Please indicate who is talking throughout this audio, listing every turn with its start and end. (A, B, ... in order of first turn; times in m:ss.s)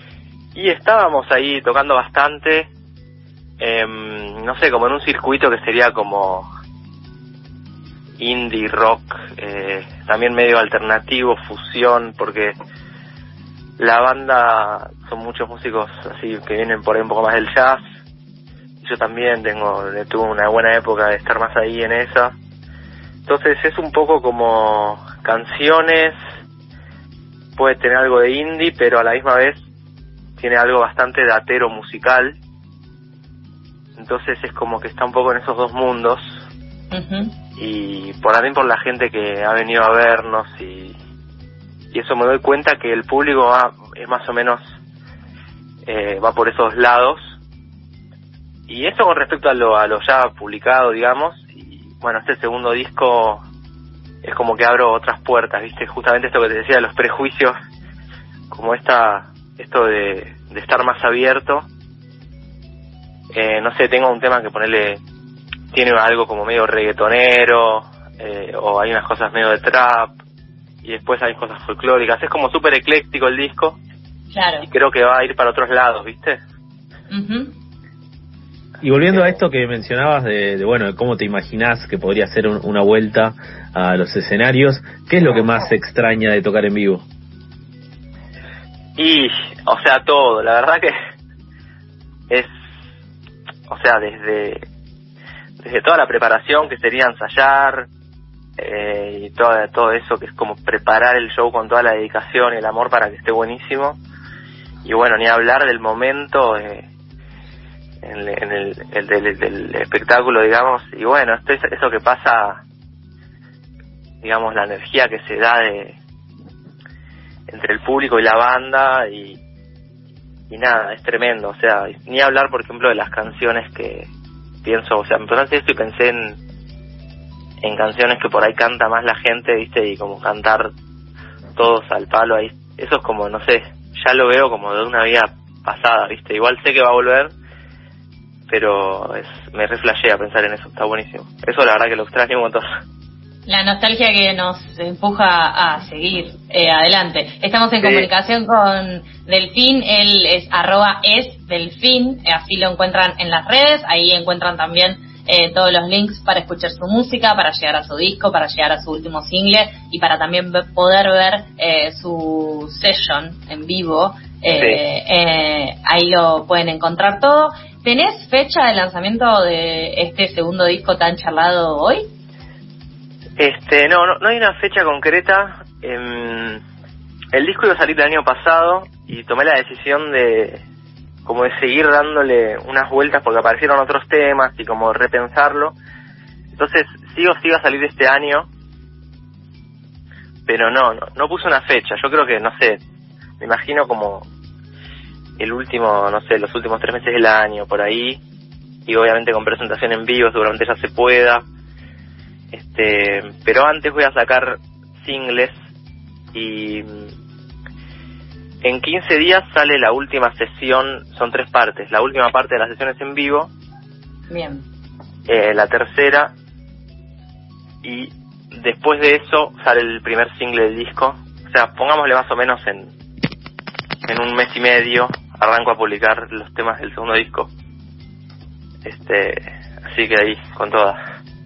0:00.5-0:02.7 A
0:03.6-0:06.5 A
0:08.2-0:12.5 A
0:13.8-0:17.8 A
0:18.8-0:22.3 A
0:23.2-0:26.2 A
0:27.6-0:29.6 A
0:30.4-0:32.4 A
0:34.0-0:36.2 A
0:36.9-0:37.4 B
0:37.6-0:40.9 A
0:41.9-0:44.6 A
0:45.8-0:47.2 A
0:48.7-0:53.4 A
0:54.2-0:57.5 A
0:58.5-1:01.7 A
1:03.3-1:05.0 A
1:05.7-1:10.1 A
1:10.8-1:13.8 A
1:14.3-1:14.7 B
1:14.6-1:16.4 A
1:17.1-1:17.5 B
1:18.8-1:27.0 C
1:29.0-1:30.9 A
1:33.7-1:34.6 A
1:35.6-1:37.9 A
1:38.6-1:44.0 A
1:44.8-1:46.9 A
1:48.0-1:52.6 A
1:54.2-1:56.0 A
1:57.5-1:59.4 A
2:00.5-2:04.1 A
2:04.6-2:06.4 A
2:07.6-2:10.7 A
2:11.6-2:17.3 A
2:18.5-2:22.6 A
2:23.5-2:52.0 B
2:27.8-2:28.1 A
2:44.5-2:44.8 A
2:53.4-2:56.6 A
2:57.3-3:00.6 A
3:01.2-3:05.8 A
3:06.6-3:08.5 A
3:10.5-3:12.8 A
3:13.4-3:14.3 A
3:15.4-3:18.2 A
3:18.9-3:21.4 A
3:22.5-3:25.5 A
3:26.3-3:27.1 A
3:28.6-3:33.5 A
3:34.3-3:34.6 B
3:35.3-3:36.3 A
3:37.8-3:42.9 A
3:44.0-3:47.5 A
3:48.8-3:51.0 A